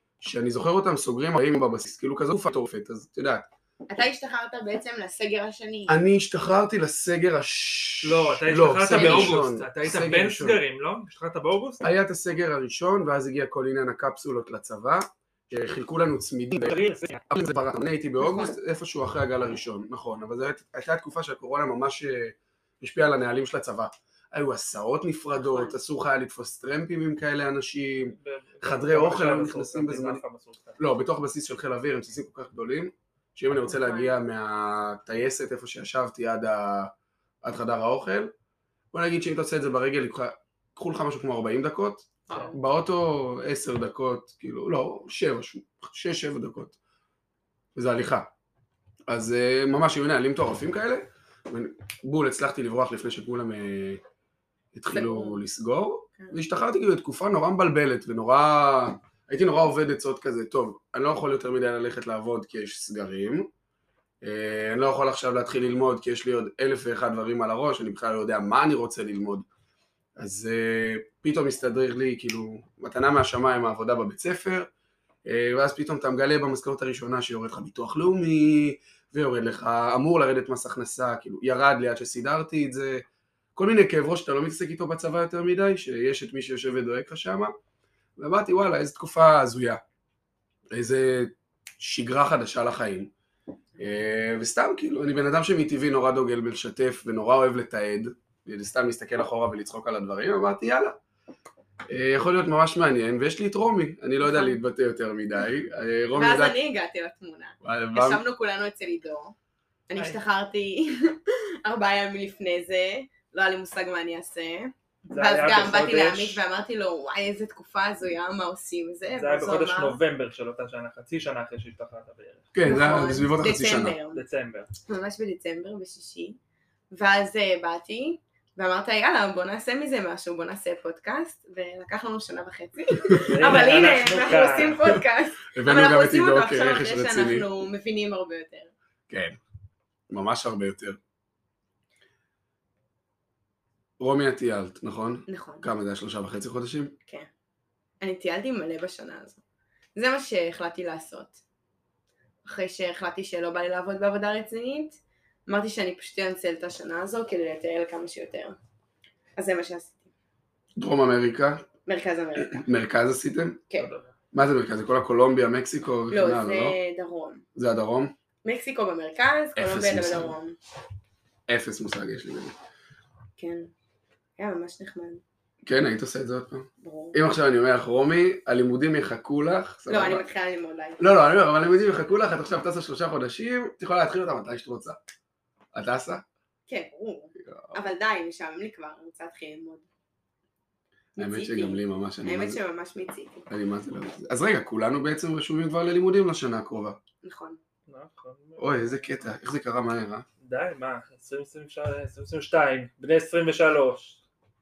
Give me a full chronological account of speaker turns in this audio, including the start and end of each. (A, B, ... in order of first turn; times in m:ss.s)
0:00.2-0:03.5 A
0:03.9-0:06.0 B
0:05.9-0:10.6 A
0:08.0-0:11.8 C
0:08.9-0:09.4 B
0:11.8-0:30.2 A
0:16.6-0:17.2 C
0:18.2-0:18.5 B
0:25.4-0:25.8 B
0:28.1-0:30.8 C
0:30.8-0:36.9 A
0:33.7-0:34.1 B
0:37.4-0:38.3 A
0:38.9-0:46.8 A
0:42.3-0:42.6 B
0:47.8-0:48.3 A
0:49.1-0:54.0 A
0:54.7-1:03.5 A
0:54.9-0:55.4 B
1:04.2-1:09.5 A
1:10.2-1:14.7 A
1:15.3-1:23.0 A
1:23.6-1:27.5 A
1:28.2-1:29.8 A
1:30.7-1:33.1 A
1:33.8-1:41.0 A
1:41.9-1:46.6 A
1:44.2-1:44.6 B
1:46.1-1:49.4 B
1:47.6-1:48.2 A
1:49.9-2:00.0 B
1:55.0-1:56.4 C
1:59.1-2:02.5 C
2:02.5-2:04.0 A
2:02.6-2:04.2 B
2:04.1-2:04.7 C
2:04.8-2:06.4 B
2:06.9-2:18.7 B
2:13.3-2:15.0 C
2:15.5-2:17.5 A
2:19.1-2:19.4 A
2:20.1-2:21.0 A
2:24.0-2:26.9 A
2:25.3-2:25.7 B
2:28.0-2:29.4 B
2:30.0-2:31.4 B
2:32.4-2:38.6 B
2:39.4-2:40.1 B
2:40.8-2:41.7 A
2:41.9-2:42.6 B
2:42.4-2:43.6 A
2:43.8-2:44.1 C
2:44.3-2:46.8 A
2:46.1-2:47.4 B
2:47.6-2:48.1 A
2:48.4-2:50.6 B
2:49.6-2:50.4 A
2:51.5-2:52.6 A
2:53.4-2:53.7 B
2:54.4-2:55.2 B
2:55.6-3:00.3 A
2:56.8-2:57.2 B
2:59.9-3:01.0 B
3:01.0-3:05.0 A
3:05.7-3:06.2 A
3:06.7-3:09.9 B
3:07.4-3:07.9 A
3:11.2-3:12.6 A
3:11.2-3:13.4 B
3:13.5-3:17.0 A
3:17.2-3:17.6 B
3:17.9-3:19.2 C
3:18.6-3:20.3 A
3:20.4-3:24.2 C